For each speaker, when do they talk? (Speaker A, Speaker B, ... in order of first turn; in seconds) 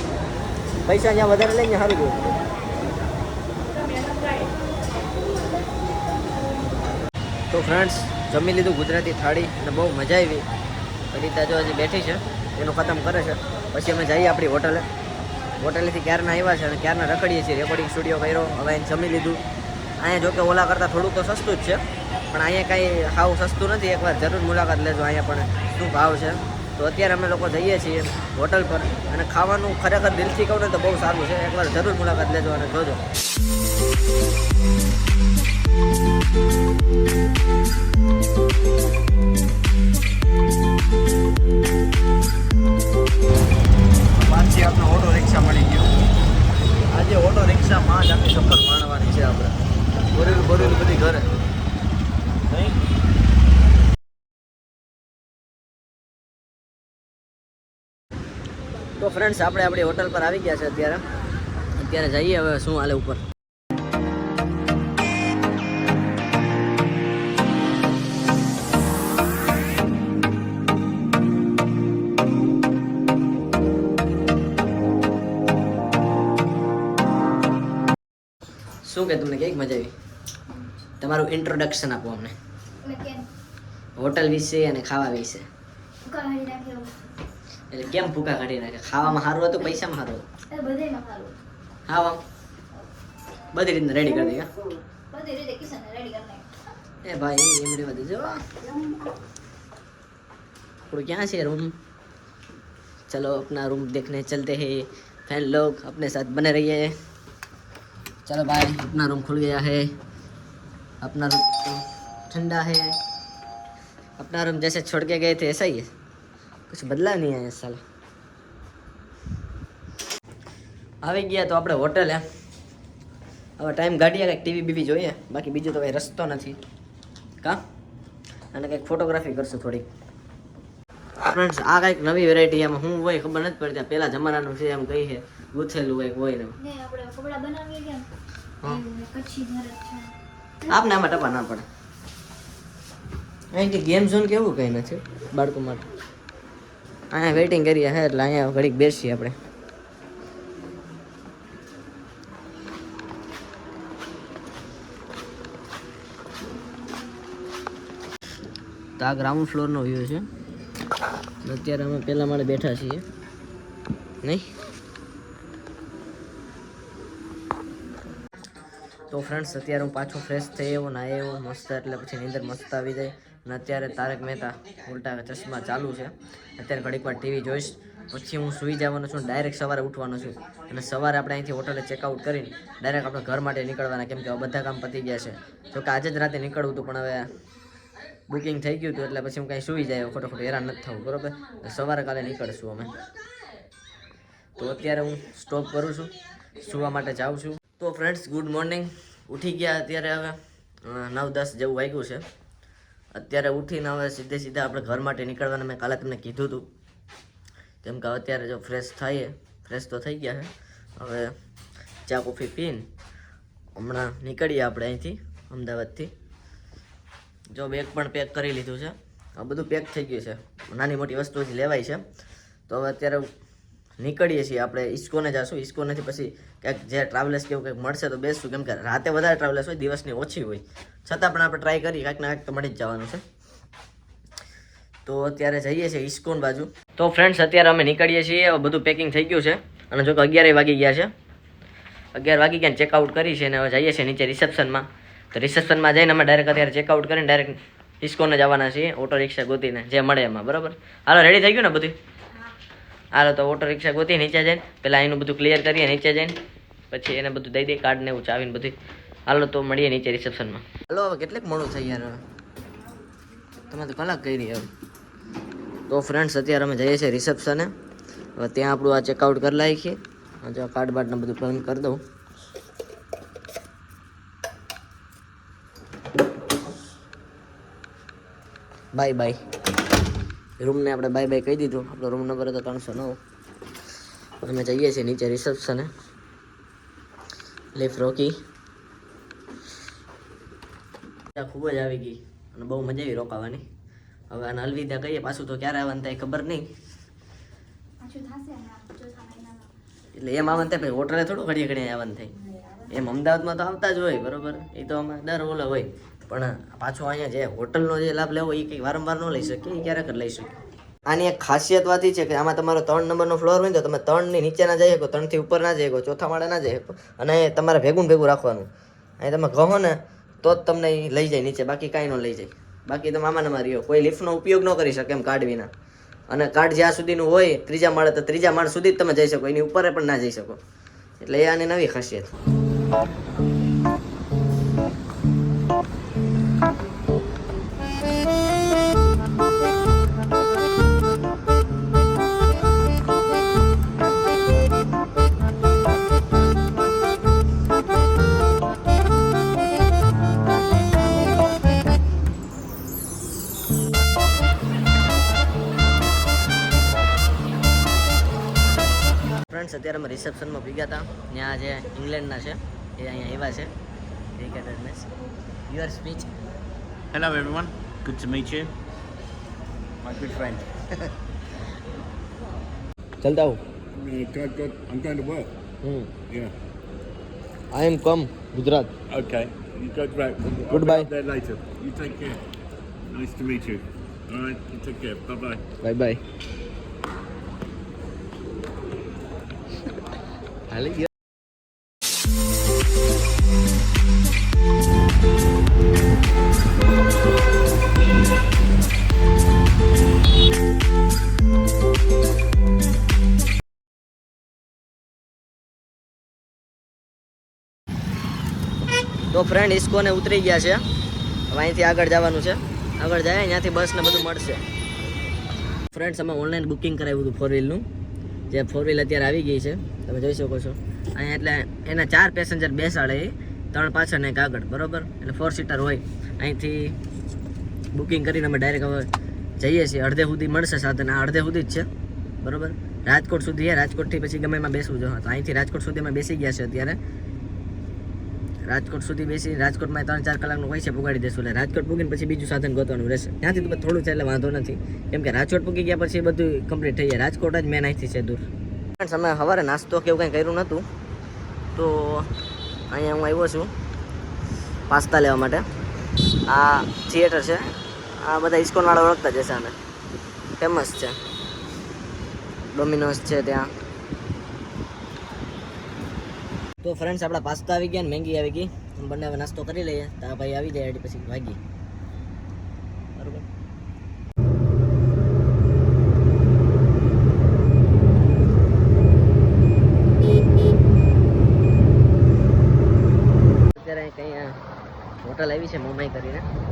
Speaker A: 0.8-2.3, 7.5-10.5, 11.1-14.9, 15.6-19.4, 20.0-33.0, 44.2-45.9, 46.9-49.5, 50.1-51.2, 59.0-61.0, 61.8-63.2, 78.8-79.9, 81.0-82.3, 84.0-85.5, 87.7-90.2, 91.9-92.2, 93.5-94.5, 97.0-98.4, 100.8-101.8, 103.1-106.9, 108.2-109.9, 111.0-113.0, 114.2-115.9, 116.7-117.8, 121.0-122.2, 123.6-126.6, 128.5-129.9, 131.2-136.6, 140.7-141.7, 143.5-145.8, 147.1-149.3, 159.0-160.3, 161.4-163.1, 164.2-164.5, 169.1-187.3, 188.3-192.9, 194.6-202.2, 203.1-206.7, 207.8-211.3, 212.1-212.8, 213.8-216.1, 217.5-222.0, 222.7-223.2, 224.0-233.2, 235.1-241.1, 242.1-251.9, 253.1-256.4, 256.9-258.8, 259.3-262.2, 263.7-264.7, 265.9-267.7, 268.4-272.0, 278.9-279.4, 280.6-283.2, 284.4-285.9, 287.7-288.4, 291.3-293.6, 294.3-296.7, 300.1-302.4, 302.9-310.5, 311.1-318.7, 319.2-325.7, 326.3-330.6, 331.2-332.3, 359.5-363.7, 364.4-365.1, 365.7-366.3, 373.2-373.6, 375.8-376.1, 377.7-378.9, 380.7-381.1, 385.8-386.2, 390.7-391.1, 409.3-410.8, 411.5-414.6, 415.9-417.9, 418.5-427.0, 427.9-431.9, 432.4-437.0, 438.6-448.4, 449.0-450.8, 451.7-452.3, 452.9-453.7, 454.9-455.6, 456.5-457.7, 458.2-459.7, 460.6-461.2, 462.7-463.7, 466.8-471.6, 473.2-473.4, 483.8-484.6, 485.2-486.4
Speaker B: 82.8-83.3, 86.0-86.9, 90.5-91.4, 95.1-96.5, 136.6-138.1, 138.6-140.1, 298.0-299.7
Speaker C: 370.1-370.5, 373.9-375.5, 376.3-376.6, 379.1-382.4, 383.1-385.6